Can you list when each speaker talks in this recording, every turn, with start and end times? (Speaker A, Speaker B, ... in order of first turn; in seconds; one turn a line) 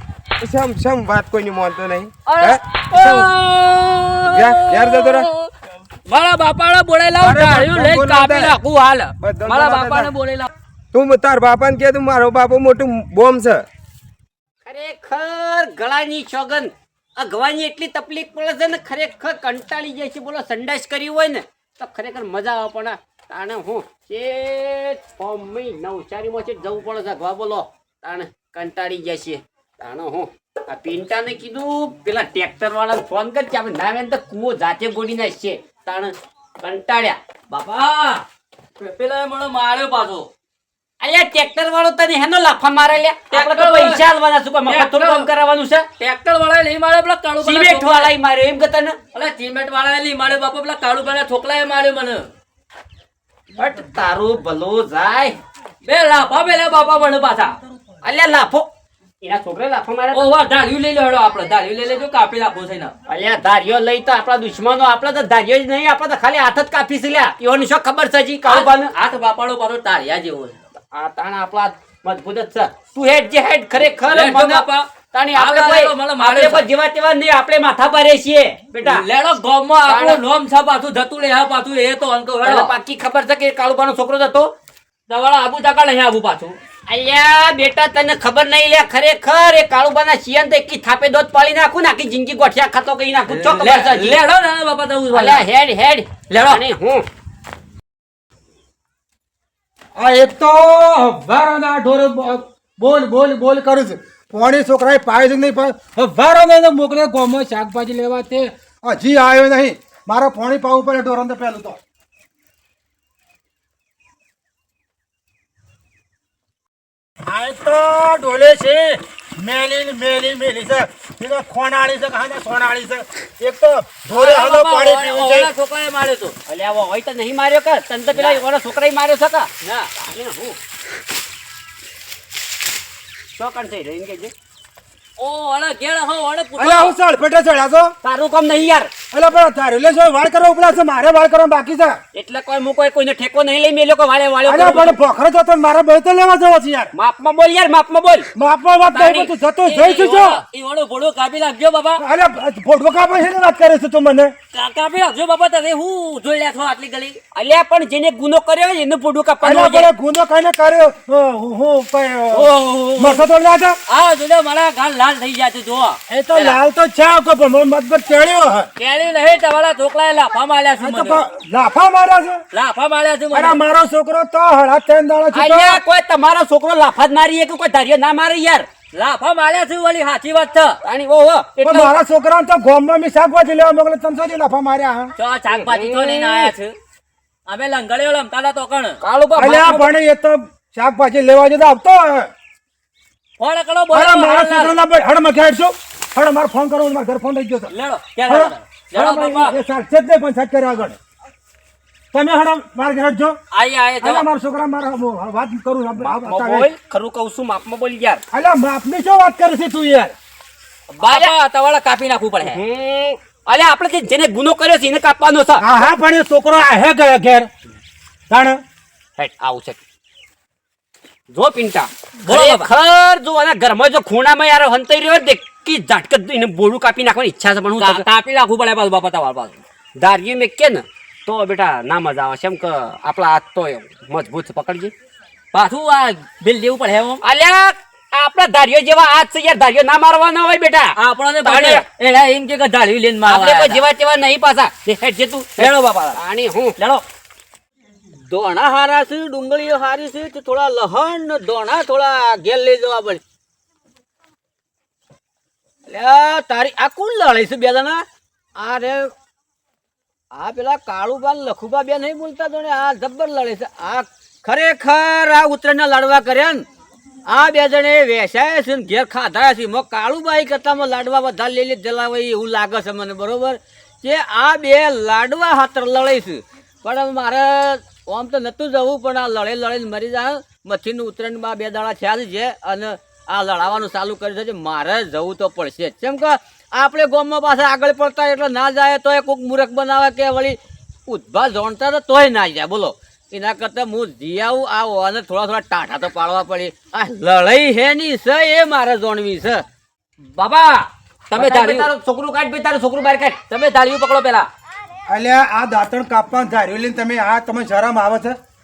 Speaker A: 0.4-3.3
Speaker B: 2.2-5.5
Speaker A: 4.3-5.3
Speaker B: 6.1-10.5
Speaker A: 7.2-8.6
Speaker A: 9.2-10.1
Speaker A: 10.9-13.7
Speaker C: 14.7-37.2
Speaker B: 37.5-38.2
Speaker B: 38.8-40.3
Speaker C: 41.0-45.9
Speaker B: 43.3-44.0
Speaker B: 44.7-45.3
Speaker B: 46.0-48.1
Speaker C: 47.4-49.0
Speaker B: 49.1-52.3
Speaker C: 53.6-55.4
Speaker B: 55.8-57.6
Speaker C: 58.0-58.7
Speaker C: 59.2-60.2
Speaker B: 60.1-62.9
Speaker C: 63.1-68.9
Speaker B: 68.4-70.6
Speaker C: 70.9-79.0
Speaker B: 73.8-76.7
Speaker B: 78.8-82.7
Speaker C: 79.8-80.2
Speaker C: 82.4-84.5
Speaker B: 85.1-86.6
Speaker C: 86.9-94.2
Speaker B: 93.3-95.5
Speaker C: 95.1-97.0
Speaker B: 96.3-96.6
Speaker D: 100.0-111.8
Speaker D: 117.2-125.5
Speaker B: 124.1-126.3
Speaker C: 126.5-129.5
Speaker B: 128.1-128.4
Speaker B: 129.6-129.9
Speaker C: 130.0-130.6
Speaker C: 133.4-134.3
Speaker B: 135.2-136.9
Speaker D: 136.6-137.9
Speaker C: 138.0-138.9
Speaker D: 139.1-142.0
Speaker C: 142.1-145.0
Speaker D: 144.4-146.9
Speaker C: 146.9-148.3
Speaker D: 148.3-150.4
Speaker C: 148.9-149.3
Speaker B: 149.7-152.0
Speaker D: 152.0-154.3
Speaker B: 154.5-157.2
Speaker C: 157.3-159.9
Speaker D: 159.4-163.8
Speaker B: 162.3-163.2
Speaker B: 163.9-166.6
Speaker D: 166.1-168.7
Speaker B: 168.8-171.2
Speaker D: 170.8-172.4
Speaker B: 172.5-173.6
Speaker D: 173.3-175.8
Speaker C: 175.3-178.7
Speaker B: 178.9-180.8
Speaker C: 180.8-181.9
Speaker D: 181.6-185.1
Speaker B: 185.2-186.7
Speaker C: 185.5-186.5
Speaker B: 187.5-189.0
Speaker C: 189.0-189.9
Speaker D: 189.3-192.3
Speaker B: 193.4-194.8
Speaker D: 193.9-197.7
Speaker B: 197.7-199.6
Speaker D: 198.2-201.0
Speaker D: 202.1-203.4
Speaker B: 203.5-204.2
Speaker D: 204.0-206.7
Speaker C: 206.0-208.2
Speaker D: 208.3-210.1
Speaker B: 210.9-212.6
Speaker C: 211.0-211.3
Speaker C: 212.4-215.7
Speaker D: 215.6-217.5
Speaker D: 218.3-218.6
Speaker C: 219.2-219.8
Speaker C: 221.3-228.0
Speaker B: 222.2-222.7
Speaker B: 227.8-229.6
Speaker C: 230.0-234.9
Speaker B: 235.5-237.2
Speaker C: 237.2-241.8
Speaker B: 241.0-243.8
Speaker C: 243.2-246.8
Speaker B: 245.6-246.1
Speaker E: 248.2-253.2
Speaker E: 255.8-258.0
Speaker E: 258.6-259.1
Speaker E: 260.3-266.6
Speaker E: 267.3-299.6
Speaker B: 300.3-301.9
Speaker C: 301.3-303.4
Speaker B: 303.5-304.5
Speaker D: 305.1-308.4